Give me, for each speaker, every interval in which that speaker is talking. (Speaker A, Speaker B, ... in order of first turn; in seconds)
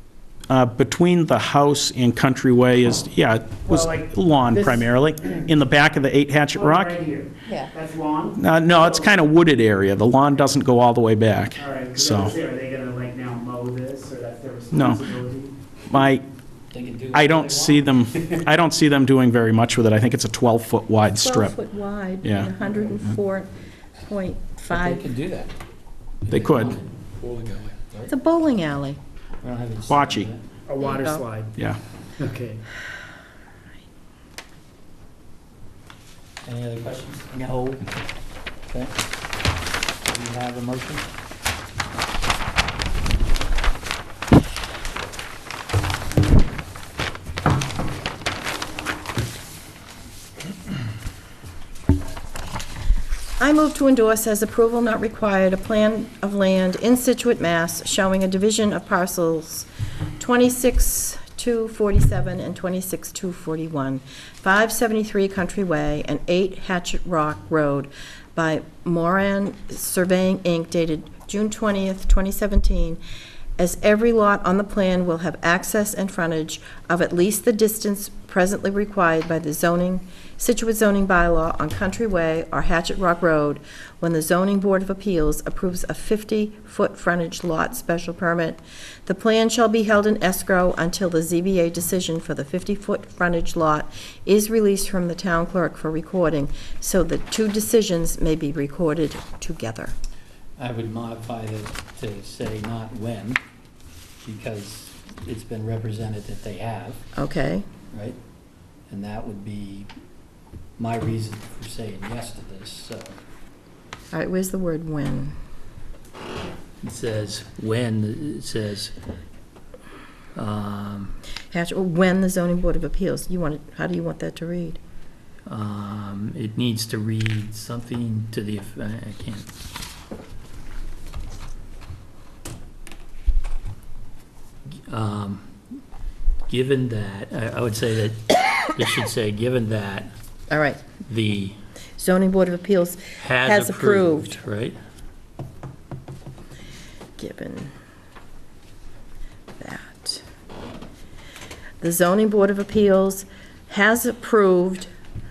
Speaker A: 0.5-7.0, 8.4-12.3, 14.7-15.0, 15.9-16.2, 17.1-21.6, 22.2-22.5, 26.3-26.8, 29.9-30.3
Speaker B: 3.7-5.5, 6.5-9.1, 11.6-15.5, 30.7-31.6, 32.2-32.6
Speaker C: 7.5-7.7, 21.2-25.0, 28.1-29.0, 30.8-31.2, 53.4-59.7, 60.2-73.0, 73.6-100.0, 107.2-107.7, 114.1-115.3, 121.5-124.8, 140.5-140.8, 142.0-144.4, 147.2-147.7, 149.6-150.2, 151.8-154.9
Speaker D: 16.7-17.9, 24.7-25.6, 26.2-28.1, 29.4-30.4, 36.4-37.9, 38.7-39.0, 40.0-41.1, 100.6-103.4, 104.2-107.0, 107.9-108.2, 108.9-109.9, 110.8-113.2, 116.8-118.9, 120.3-121.2, 125.5-129.5, 134.9-135.6, 136.5-140.1, 141.1-141.6, 143.2-144.8